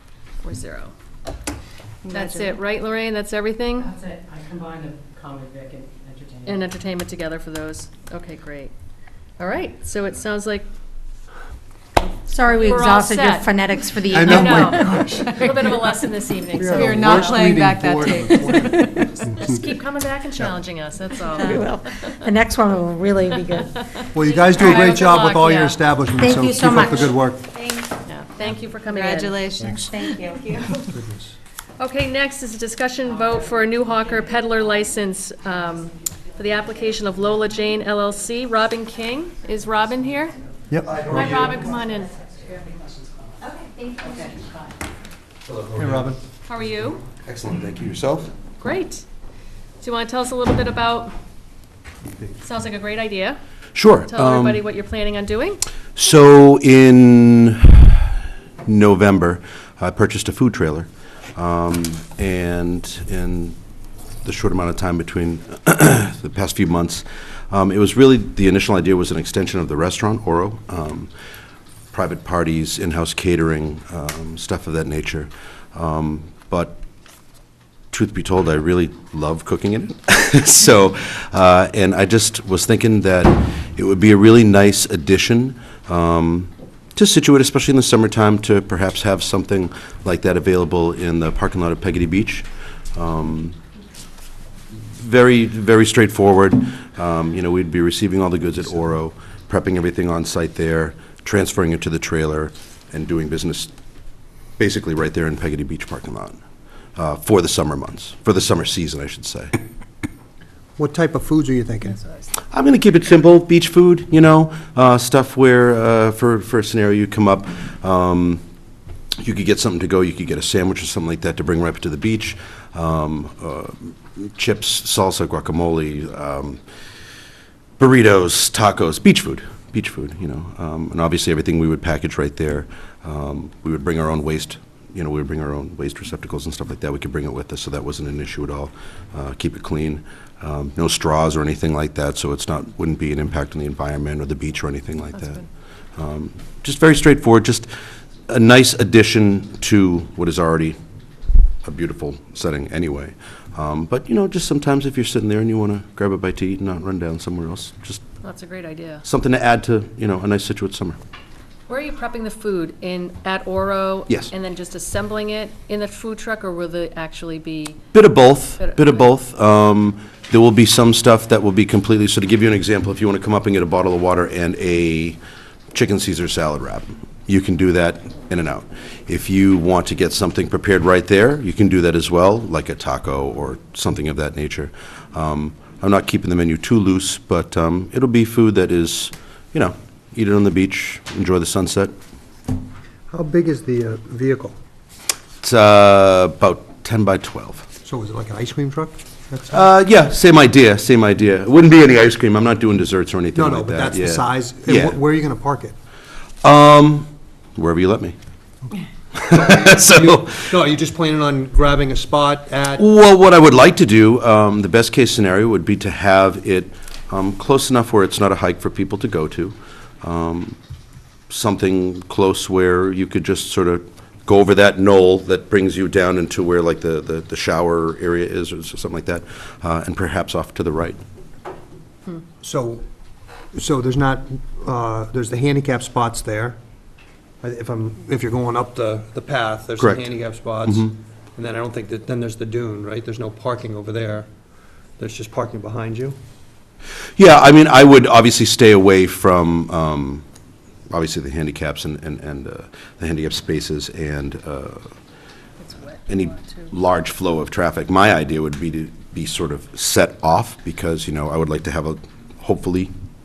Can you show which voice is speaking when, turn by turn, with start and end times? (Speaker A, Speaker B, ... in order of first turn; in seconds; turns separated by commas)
Speaker A: 0.4-0.9, Speaker B: 2.0-2.6, Speaker A: 2.1-3.9, Speaker B: 4.0-6.5, Speaker A: 6.4-8.7, Speaker A: 9.4-10.7, Speaker A: 12.0-17.4, Speaker C: 12.3-15.9, Speaker D: 14.1-15.1, Speaker B: 15.3-15.7, Speaker D: 16.6-19.0, Speaker B: 16.7-19.1, Speaker A: 19.2-22.3, Speaker B: 21.4-21.6, Speaker C: 21.4-23.8, Speaker A: 23.3-25.8, Speaker D: 24.1-27.4, Speaker C: 26.1-27.3, Speaker E: 27.5-27.9, Speaker A: 28.1-29.3, Speaker B: 28.9-30.4, Speaker C: 29.8-30.2, Speaker E: 30.1-30.8, Speaker D: 30.9-31.3, Speaker A: 31.8-40.4, Speaker D: 40.7-41.4, Speaker A: 41.1-42.1, Speaker F: 41.1-41.5, Speaker E: 42.1-44.3, Speaker C: 43.8-44.5, Speaker F: 45.4-46.1, Speaker D: 45.8-46.2, Speaker A: 46.5-47.0, Speaker F: 47.2-48.3, Speaker A: 48.6-49.0, Speaker A: 49.8-51.1, Speaker A: 52.4-53.4, Speaker F: 53.7-54.6, Speaker A: 54.1-55.6, Speaker F: 56.0-58.1, Speaker F: 58.6-63.5, Speaker F: 64.2-71.1, Speaker F: 71.9-76.8, Speaker F: 77.9-93.6, Speaker F: 94.9-103.7, Speaker F: 104.6-106.4, Speaker F: 107.0-109.6, Speaker D: 110.8-112.0, Speaker F: 112.5-118.4, Speaker F: 119.2-126.6, Speaker F: 127.8-145.4, Speaker F: 146.0-147.7, Speaker F: 148.3-150.8, Speaker F: 151.6-158.0, Speaker A: 158.2-159.0, Speaker F: 159.0-161.0, Speaker A: 161.7-167.8, Speaker F: 167.9-175.2, Speaker A: 168.6-169.1, Speaker F: 175.7-191.9, Speaker D: 193.1-194.6, Speaker F: 195.4-197.7, Speaker D: 197.8-199.7, Speaker F: 199.5-205.0, Speaker D: 203.3-205.7, Speaker F: 206.4-208.1, Speaker F: 209.1-210.5, Speaker D: 209.3-212.8, Speaker F: 212.8-220.6, Speaker F: 221.3-231.0, Speaker D: 232.4-232.8, Speaker D: 233.5-236.6, Speaker D: 237.4-244.3, Speaker F: 239.8-240.0, Speaker D: 245.0-246.2, Speaker F: 247.2-250.2, Speaker F: 250.9-254.9, Speaker A: 255.6-256.7, Speaker F: 256.1-262.9